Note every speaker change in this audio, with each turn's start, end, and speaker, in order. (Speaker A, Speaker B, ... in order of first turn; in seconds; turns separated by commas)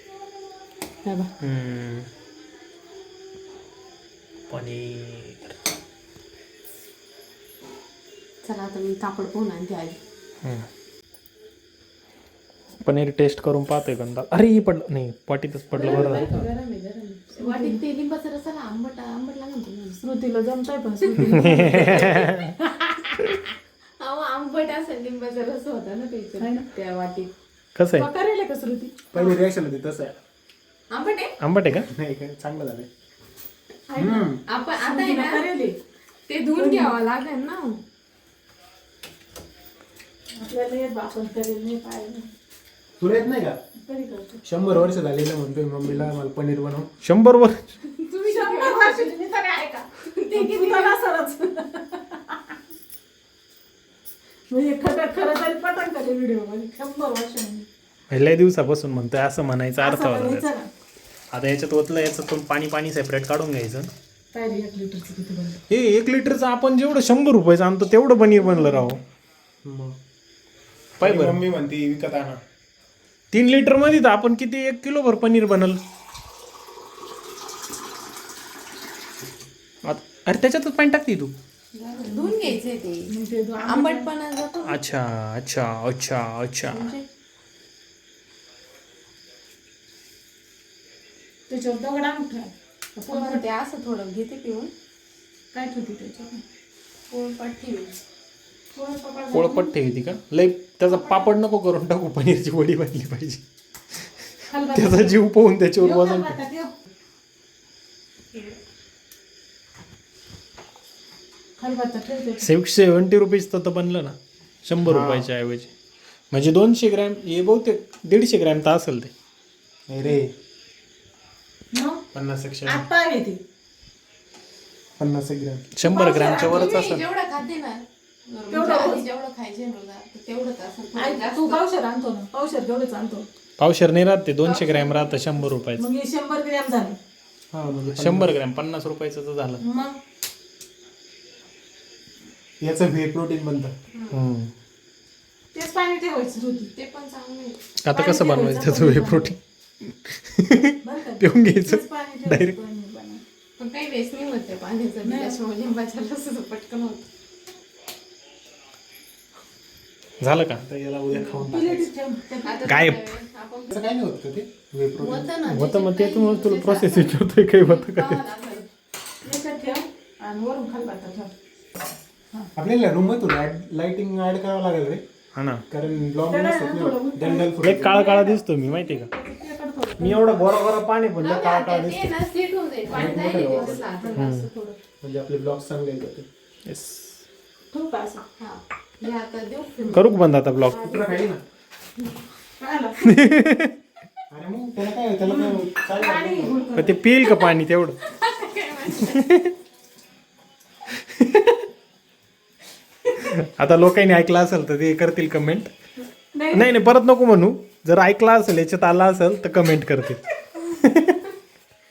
Speaker A: 1.0-1.3, Speaker B: 1.4-2.1, Speaker B: 4.5-5.5, Speaker A: 8.4-10.0, Speaker B: 12.8-16.5, Speaker A: 15.7-20.0, Speaker C: 15.9-16.2, Speaker C: 17.4-17.8, Speaker C: 20.0-22.1, Speaker A: 21.0-23.3, Speaker B: 21.5-22.5, Speaker A: 24.0-27.3, Speaker C: 26.4-26.7, Speaker B: 27.8-28.1, Speaker C: 27.9-29.1, Speaker D: 29.1-30.2, Speaker A: 30.9-31.3, Speaker B: 31.4-31.9, Speaker D: 31.9-32.9, Speaker D: 34.0-34.4, Speaker A: 34.0-35.5, Speaker C: 34.8-35.8, Speaker A: 36.3-37.8, Speaker C: 36.5-36.9, Speaker C: 40.3-42.3, Speaker D: 43.0-43.6, Speaker C: 43.8-44.4, Speaker D: 44.4-46.9, Speaker B: 47.0-47.7, Speaker A: 47.9-49.1, Speaker C: 48.2-52.6, Speaker A: 50.0-51.4, Speaker C: 54.5-57.7, Speaker B: 58.1-60.5, Speaker C: 59.8-60.7, Speaker B: 61.3-63.9, Speaker C: 64.3-65.6, Speaker B: 65.7-69.0, Speaker C: 68.4-69.0, Speaker D: 69.6-70.0, Speaker B: 71.0-71.4, Speaker D: 71.0-72.4, Speaker B: 73.3-75.8, Speaker B: 79.8-81.3, Speaker A: 81.7-84.8, Speaker C: 82.0-82.6, Speaker C: 83.1-84.1, Speaker B: 84.7-86.9, Speaker A: 86.7-87.0, Speaker C: 91.5-93.4, Speaker A: 93.0-94.7, Speaker C: 95.5-96.4, Speaker A: 97.1-97.9, Speaker C: 98.7-99.7, Speaker B: 99.3-103.4, Speaker C: 100.9-101.3, Speaker C: 104.5-105.2, Speaker B: 104.7-106.4, Speaker C: 105.8-106.7, Speaker C: 111.6-112.5, Speaker B: 112.4-115.7, Speaker D: 114.8-115.3, Speaker B: 116.3-119.1, Speaker D: 119.9-120.3, Speaker C: 121.7-122.0, Speaker D: 122.1-122.8, Speaker C: 122.7-123.4, Speaker D: 125.0-125.6, Speaker B: 125.8-127.0, Speaker C: 125.8-126.6, Speaker A: 126.2-131.6, Speaker C: 128.5-129.0, Speaker C: 130.9-133.2, Speaker B: 133.6-135.9, Speaker A: 134.4-135.5, Speaker C: 135.8-137.0, Speaker D: 137.5-138.4, Speaker B: 137.7-139.6, Speaker C: 139.6-140.0, Speaker D: 142.6-143.7, Speaker A: 143.9-144.2, Speaker B: 144.1-144.5, Speaker C: 145.5-146.7, Speaker A: 146.7-147.6, Speaker B: 147.8-152.5, Speaker C: 147.9-149.3, Speaker C: 150.8-153.2, Speaker A: 153.6-157.0, Speaker C: 155.0-155.4, Speaker B: 160.2-160.6, Speaker D: 160.6-161.9, Speaker C: 161.1-162.8, Speaker A: 162.4-163.7, Speaker B: 162.7-163.0, Speaker D: 163.7-165.3, Speaker A: 165.0-168.7, Speaker B: 165.5-168.2, Speaker C: 169.2-171.3, Speaker D: 172.5-175.0, Speaker B: 175.3-175.6, Speaker D: 175.7-178.0, Speaker C: 176.3-180.5, Speaker B: 177.6-179.1, Speaker B: 180.0-182.1, Speaker A: 181.2-184.8, Speaker D: 182.9-183.8, Speaker C: 183.1-184.3, Speaker B: 184.2-184.5, Speaker D: 185.0-186.3, Speaker B: 186.7-187.2, Speaker C: 187.7-188.2, Speaker A: 188.4-190.2, Speaker B: 189.9-190.8, Speaker C: 190.7-191.2, Speaker D: 190.8-191.4, Speaker C: 192.5-193.2, Speaker B: 193.1-193.7, Speaker D: 194.3-196.6, Speaker C: 195.2-197.0, Speaker B: 196.7-198.0, Speaker A: 198.1-199.3, Speaker B: 199.0-199.5, Speaker B: 200.9-201.6, Speaker B: 203.2-205.7, Speaker C: 206.3-206.7, Speaker B: 206.5-211.2